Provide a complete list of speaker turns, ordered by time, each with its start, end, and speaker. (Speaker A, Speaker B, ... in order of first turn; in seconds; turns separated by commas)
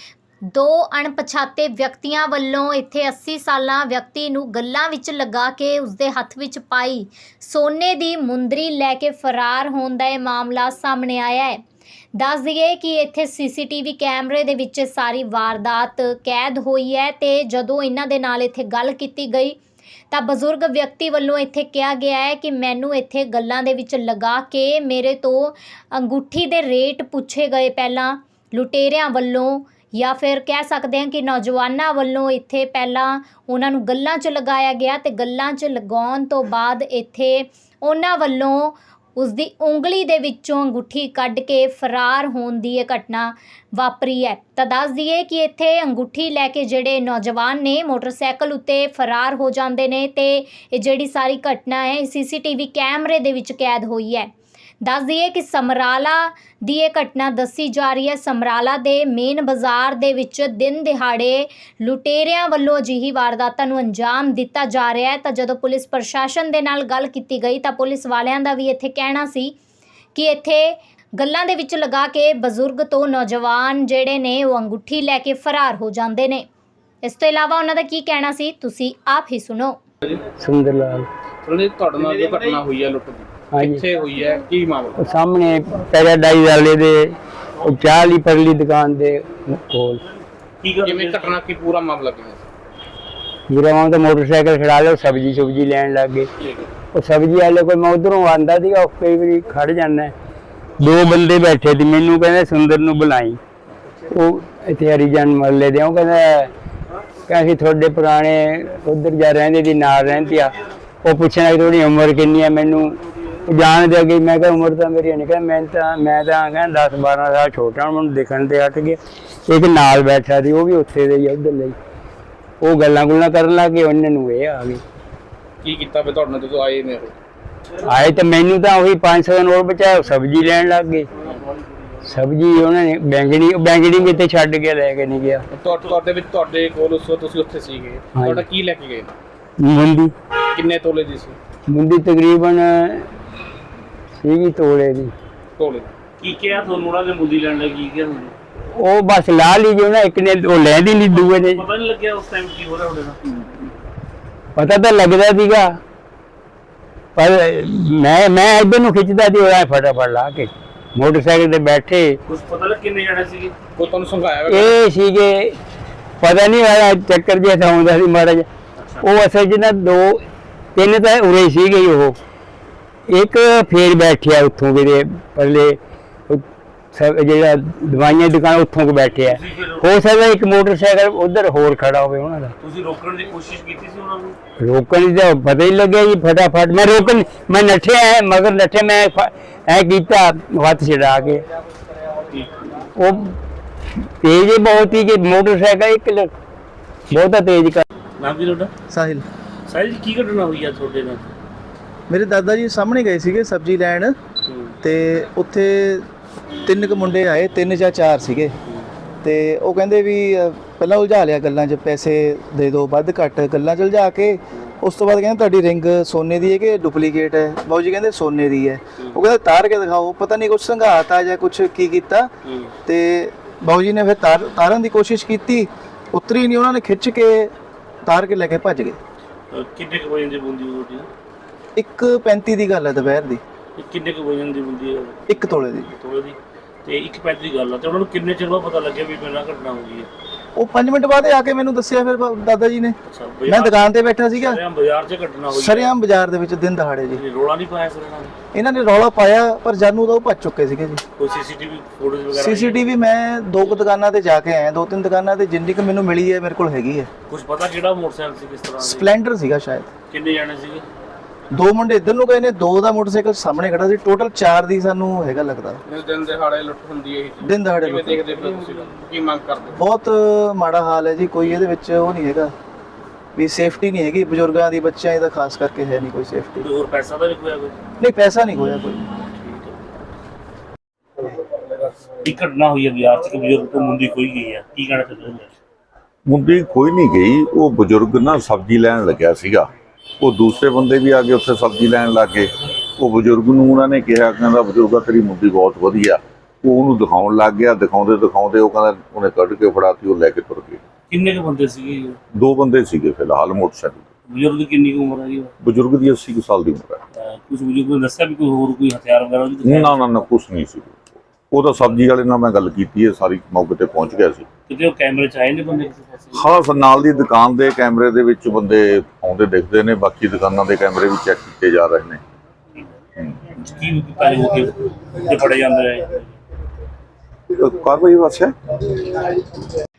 Speaker A: 0.5-11.6, Speaker A: 12.2-19.6, Speaker A: 20.1-69.6, Speaker A: 70.2-76.5, Speaker A: 77.0-79.8, Speaker B: 80.4-81.1, Speaker C: 81.5-85.0, Speaker B: 83.5-83.9, Speaker B: 85.0-90.0, Speaker D: 90.6-91.4, Speaker C: 90.8-92.5, Speaker B: 93.5-96.3, Speaker B: 96.8-100.1, Speaker B: 100.8-103.4, Speaker B: 104.1-106.5, Speaker B: 107.3-121.8, Speaker B: 122.6-124.8, Speaker C: 125.6-127.2, Speaker B: 127.8-131.1, Speaker B: 132.1-135.4, Speaker C: 135.6-139.2, Speaker D: 135.7-136.0, Speaker B: 138.1-138.5, Speaker B: 139.6-140.1, Speaker C: 140.5-141.4, Speaker B: 141.7-143.1, Speaker B: 144.2-145.1, Speaker C: 145.6-145.9, Speaker D: 146.2-148.3, Speaker B: 148.8-151.6, Speaker D: 151.0-153.2, Speaker B: 154.6-155.7, Speaker B: 157.2-162.2, Speaker D: 162.3-164.0, Speaker C: 163.8-164.8, Speaker B: 164.5-165.6, Speaker B: 166.2-168.5, Speaker D: 168.8-169.0, Speaker B: 169.0-170.2, Speaker B: 170.8-172.2, Speaker B: 173.1-182.5, Speaker D: 179.3-179.9, Speaker D: 182.6-184.4, Speaker B: 184.6-191.4, Speaker D: 192.3-192.6, Speaker B: 193.0-193.3, Speaker B: 194.2-196.3, Speaker B: 197.1-197.8, Speaker D: 198.2-198.7, Speaker E: 198.9-199.2, Speaker D: 199.7-201.3, Speaker E: 202.1-204.2, Speaker D: 204.5-204.8, Speaker E: 204.8-206.1, Speaker E: 206.7-208.6, Speaker E: 209.2-222.3, Speaker D: 222.4-222.7, Speaker E: 222.9-227.5, Speaker E: 228.1-229.0, Speaker D: 229.5-231.1, Speaker E: 231.8-233.4, Speaker D: 233.8-235.4, Speaker E: 235.3-235.9, Speaker D: 235.9-240.1, Speaker E: 240.6-244.6, Speaker D: 243.1-243.8, Speaker D: 244.3-245.9, Speaker E: 245.5-247.2, Speaker D: 247.2-248.3, Speaker E: 248.5-251.0, Speaker D: 251.2-252.8, Speaker E: 252.3-257.1, Speaker D: 257.3-259.1, Speaker E: 258.8-259.9, Speaker D: 260.1-260.9, Speaker E: 261.5-265.8, Speaker C: 265.9-269.8, Speaker E: 267.4-268.2, Speaker D: 267.9-269.0, Speaker E: 269.8-272.5, Speaker E: 273.4-276.7, Speaker D: 276.6-277.8, Speaker E: 278.0-279.1, Speaker D: 279.4-279.8, Speaker D: 282.2-285.5, Speaker F: 286.3-300.8, Speaker D: 301.1-302.2, Speaker F: 302.3-304.1, Speaker D: 304.3-305.5, Speaker F: 305.6-307.0, Speaker D: 307.1-310.1, Speaker F: 309.6-314.5, Speaker D: 314.7-316.4, Speaker F: 316.3-322.2, Speaker D: 323.5-326.2, Speaker F: 327.5-329.3